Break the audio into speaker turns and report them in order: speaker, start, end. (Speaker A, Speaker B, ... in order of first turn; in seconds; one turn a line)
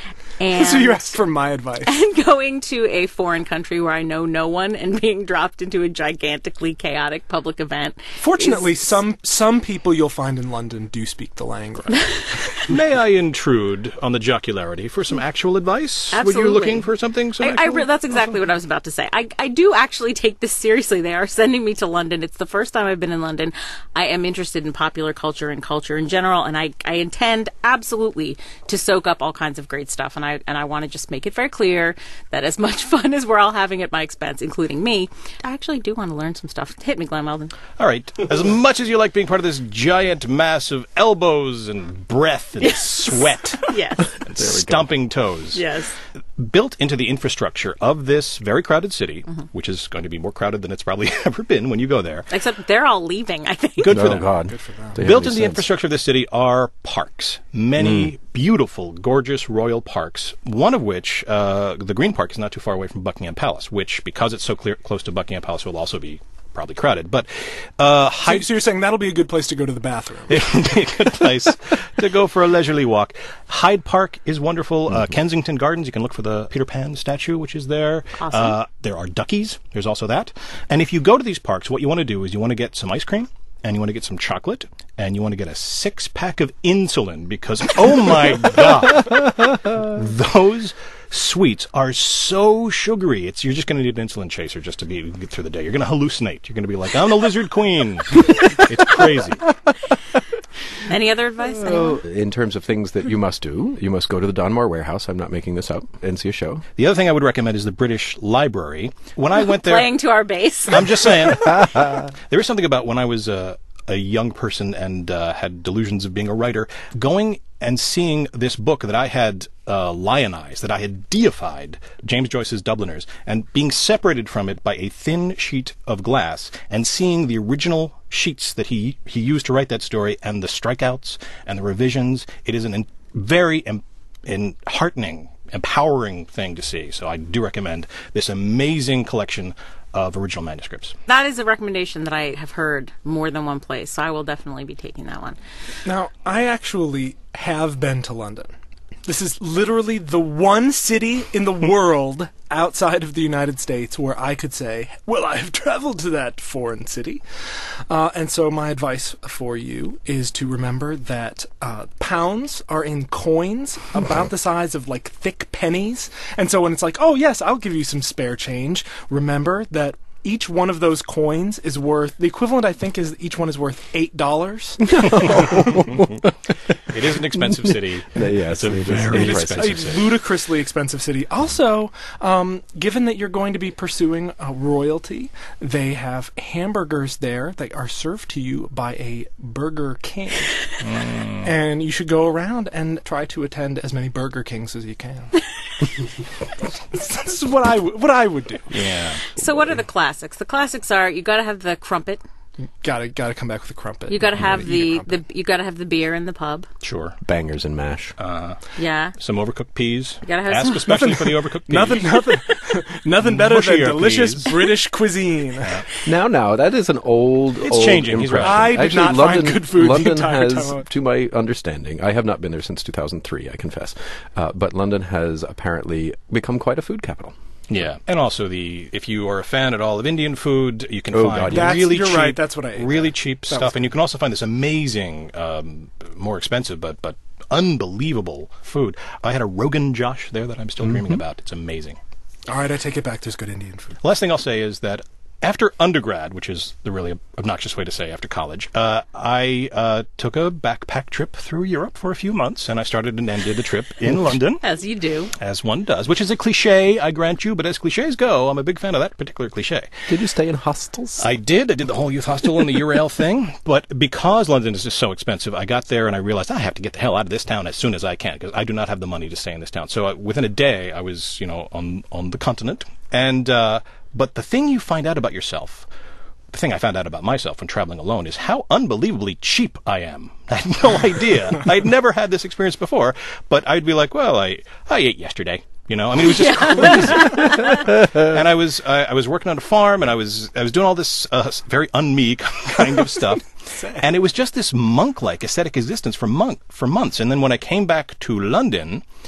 Speaker A: 0.4-1.2
Speaker B: 0.5-1.9
Speaker A: 1.8-8.9
Speaker B: 8.2-12.4
Speaker A: 12.0-12.4
Speaker C: 12.7-17.9
Speaker A: 16.1-37.5
Speaker C: 37.8-45.6
Speaker A: 42.6-44.2
Speaker D: 44.4-44.9
Speaker A: 45.5-46.0
Speaker C: 46.4-52.3
Speaker A: 52.3-53.9
Speaker C: 53.8-54.3
Speaker D: 53.9-55.6
Speaker B: 54.5-55.0
Speaker C: 55.0-68.5
Speaker B: 68.2-70.4
Speaker C: 70.3-99.4
Speaker A: 78.2-78.5
Speaker A: 100.8-102.0
Speaker D: 101.6-106.6
Speaker C: 106.8-109.9
Speaker A: 109.4-111.0
Speaker C: 110.7-140.9
Speaker A: 141.1-145.4
Speaker B: 145.8-148.5
Speaker B: 149.1-157.2
Speaker B: 157.9-176.0
Speaker C: 176.8-180.2
Speaker D: 178.1-179.8
Speaker B: 179.1-190.8
Speaker C: 190.8-191.5
Speaker B: 191.4-198.8
Speaker C: 198.7-199.2
Speaker A: 199.3-202.2
Speaker B: 202.8-205.2
Speaker A: 204.1-206.7
Speaker C: 206.8-207.2
Speaker D: 207.2-208.2
Speaker C: 208.2-208.6
Speaker A: 208.8-209.2
Speaker C: 209.1-212.4
Speaker A: 210.2-210.9
Speaker B: 210.8-215.9
Speaker C: 213.2-214.7
Speaker D: 216.0-227.3
Speaker C: 217.6-218.8
Speaker B: 218.4-220.9
Speaker C: 227.7-242.0
Speaker D: 231.1-231.8
Speaker B: 231.5-233.9
Speaker B: 242.5-244.0
Speaker C: 244.0-254.6
Speaker A: 254.6-255.3
Speaker C: 255.4-259.9
Speaker D: 260.1-261.2
Speaker C: 261.2-275.9
Speaker C: 276.5-299.0
Speaker A: 286.3-287.7
Speaker B: 293.7-294.1